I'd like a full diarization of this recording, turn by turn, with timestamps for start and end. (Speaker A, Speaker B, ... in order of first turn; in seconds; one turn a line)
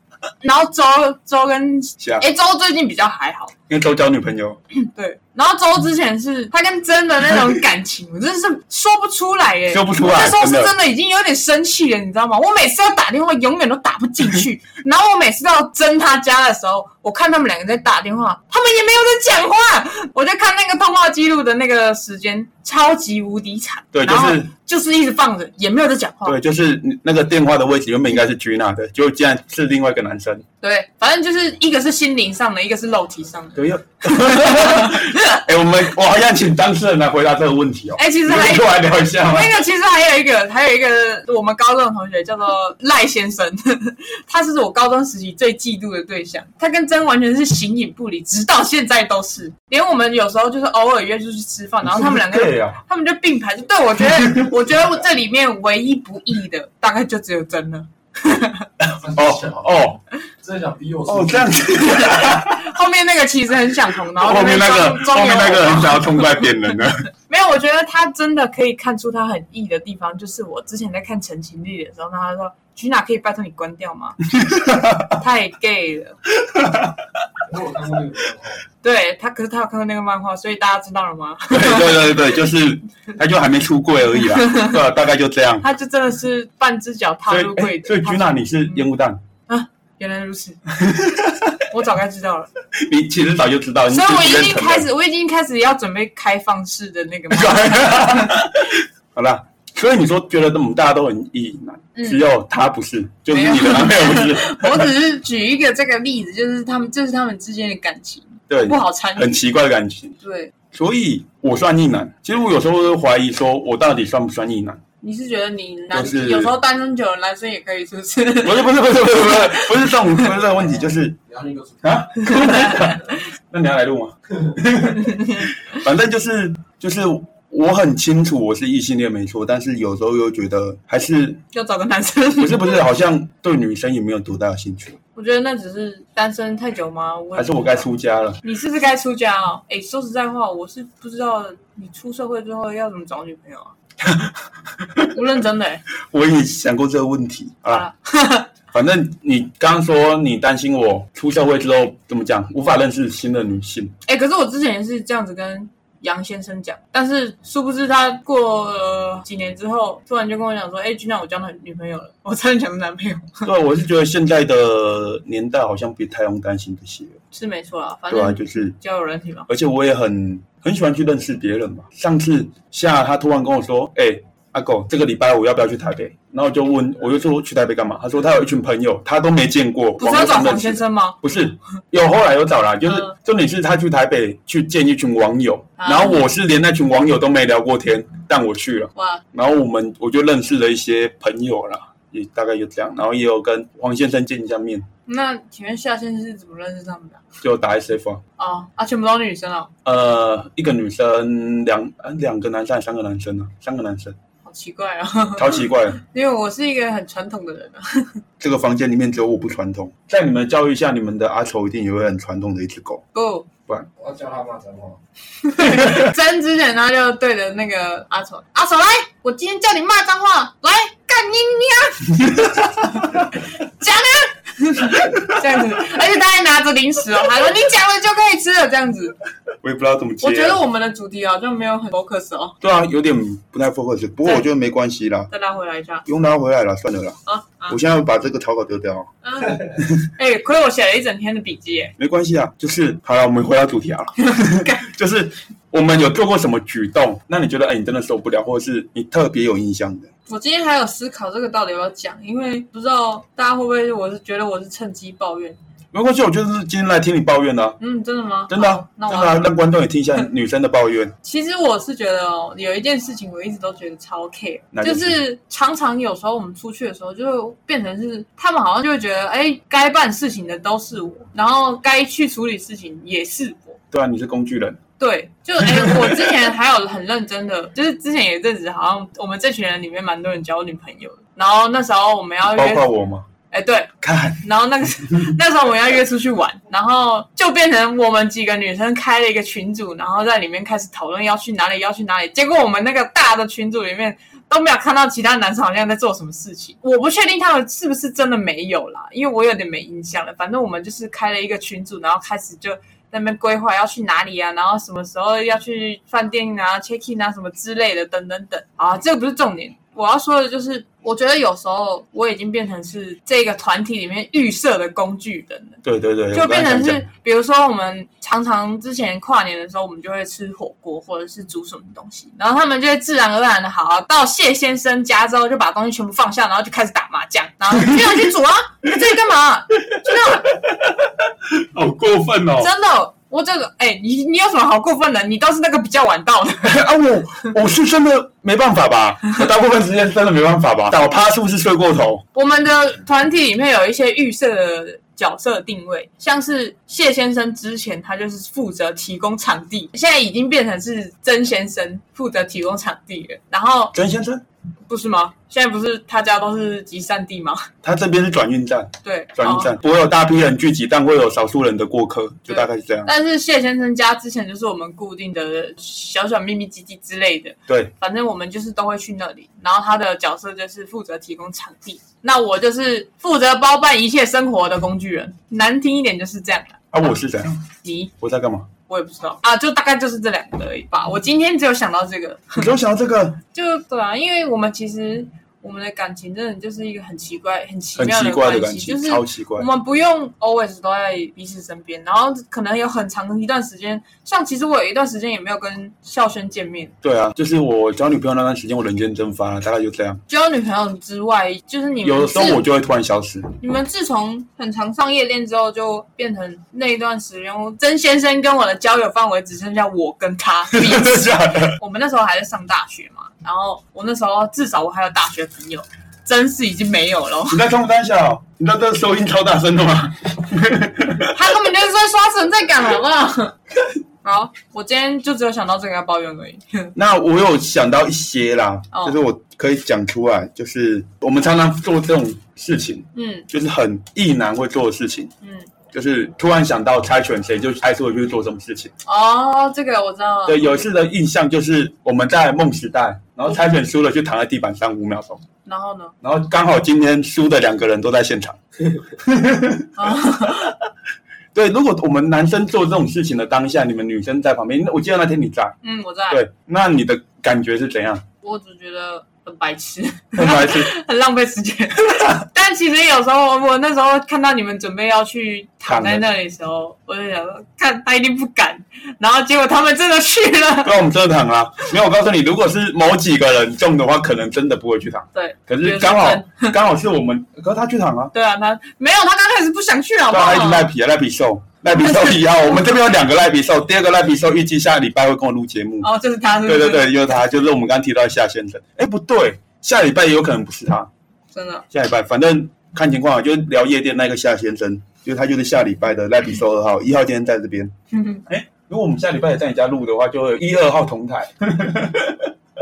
Speaker A: 0.4-3.5
Speaker B: 2.0-2.2
Speaker B: 3.7-4.6
Speaker A: 4.8-26.4
Speaker B: 9.7-10.7
Speaker B: 23.9-24.5
Speaker B: 26.2-30.4
Speaker A: 30.6-35.4
Speaker B: 33.5-39.6
Speaker A: 38.0-58.7
Speaker B: 51.8-52.8
Speaker B: 54.1-54.5
Speaker B: 58.8-60.0
Speaker C: 59.0-59.9
Speaker C: 60.4-62.1
Speaker B: 61.1-62.6
Speaker A: 61.9-66.5
Speaker B: 64.2-67.1
Speaker A: 67.3-74.2
Speaker B: 74.3-75.2
Speaker A: 75.2-76.2
Speaker B: 76.4-77.0
Speaker C: 77.5-78.6
Speaker A: 78.8-82.3
Speaker B: 81.5-85.7
Speaker A: 84.2-84.8
Speaker A: 85.6-88.8
Speaker B: 87.3-89.2
Speaker A: 89.5-90.6
Speaker B: 90.7-91.6
Speaker A: 91.7-92.5
Speaker B: 92.8-94.9
Speaker A: 93.9-98.3
Speaker B: 97.3-104.9
Speaker A: 102.0-102.2
Speaker A: 103.3-109.4
Speaker B: 108.5-110.2
Speaker A: 110.2-110.5
Speaker B: 110.7-114.8
Speaker A: 115.0-120.2
Speaker B: 115.9-116.5
Speaker B: 118.4-121.2
Speaker C: 120.5-122.0
Speaker B: 121.8-131.4
Speaker A: 122.3-122.9
Speaker A: 125.0-125.5
Speaker A: 131.5-132.8
Speaker B: 132.4-135.0
Speaker A: 135.1-137.9
Speaker B: 137.3-138.4
Speaker A: 138.4-143.7
Speaker B: 144.0-145.1
Speaker A: 145.1-145.8
Speaker B: 146.1-147.9
Speaker A: 147.7-148.5
Speaker B: 148.7-153.9
Speaker A: 154.1-163.5
Speaker B: 163.4-167.2
Speaker A: 167.3-169.5
Speaker B: 168.1-168.7
Speaker B: 169.5-194.8
Speaker A: 180.0-181.2
Speaker A: 182.9-183.1
Speaker A: 185.8-186.2
Speaker A: 188.9-189.2
Speaker A: 195.1-197.2
Speaker B: 197.4-198.2
Speaker A: 198.4-199.7
Speaker B: 199.8-204.2
Speaker A: 204.4-208.2
Speaker B: 205.3-206.0
Speaker B: 208.4-213.0
Speaker A: 213.1-213.5
Speaker C: 214.0-215.0
Speaker A: 215.4-229.1
Speaker B: 215.6-216.1
Speaker B: 222.2-223.3
Speaker B: 229.6-230.6
Speaker A: 230.2-232.6
Speaker B: 232.6-235.3
Speaker A: 235.3-236.0
Speaker B: 236.1-237.2
Speaker A: 237.2-237.8
Speaker B: 237.7-239.1
Speaker A: 239.2-241.9
Speaker B: 239.8-240.0
Speaker B: 242.0-250.1
Speaker A: 244.3-244.8
Speaker A: 250.3-255.6
Speaker B: 255.9-257.8
Speaker A: 257.8-259.5
Speaker B: 258.5-261.1
Speaker A: 261.2-273.8
Speaker B: 264.7-265.2
Speaker B: 273.9-274.8
Speaker A: 275.0-282.9
Speaker B: 275.6-276.3
Speaker B: 282.4-283.2
Speaker A: 283.5-315.8
Speaker B: 284.0-284.4
Speaker B: 315.8-317.1
Speaker A: 316.3-330.5
Speaker B: 327.8-328.2
Speaker B: 329.9-332.7
Speaker A: 332.6-336.8
Speaker B: 336.6-342.2
Speaker A: 342.3-353.9
Speaker B: 353.9-354.4
Speaker A: 354.9-357.7
Speaker B: 357.8-363.1
Speaker A: 359.0-359.7
Speaker A: 362.5-377.1
Speaker B: 376.9-377.6
Speaker A: 377.8-378.1
Speaker B: 378.2-378.7
Speaker A: 378.9-382.8
Speaker B: 382.5-383.4
Speaker A: 383.5-396.9
Speaker B: 387.9-389.7
Speaker B: 397.0-400.2
Speaker A: 400.3-402.6
Speaker B: 402.0-403.5
Speaker A: 403.6-417.6
Speaker B: 410.7-411.8
Speaker B: 417.5-421.6
Speaker A: 421.3-423.6
Speaker A: 424.2-426.9
Speaker B: 426.9-435.3
Speaker A: 428.9-429.2
Speaker A: 433.1-433.5
Speaker A: 435.4-435.7
Speaker B: 435.9-438.9
Speaker A: 439.0-440.8
Speaker B: 440.5-445.4
Speaker A: 445.6-446.1
Speaker B: 446.2-448.6
Speaker B: 449.1-449.9
Speaker A: 450.0-450.7
Speaker B: 451.5-455.8
Speaker A: 455.8-456.4
Speaker B: 456.3-458.2
Speaker A: 458.4-471.1
Speaker B: 460.3-460.9
Speaker B: 465.9-466.2
Speaker B: 470.8-478.3
Speaker A: 475.3-476.8
Speaker A: 478.3-480.9
Speaker B: 480.3-486.1
Speaker A: 481.9-483.0
Speaker A: 486.0-487.1
Speaker B: 486.6-491.1
Speaker A: 491.5-491.8
Speaker B: 491.9-497.9
Speaker A: 498.1-498.4
Speaker B: 498.5-502.5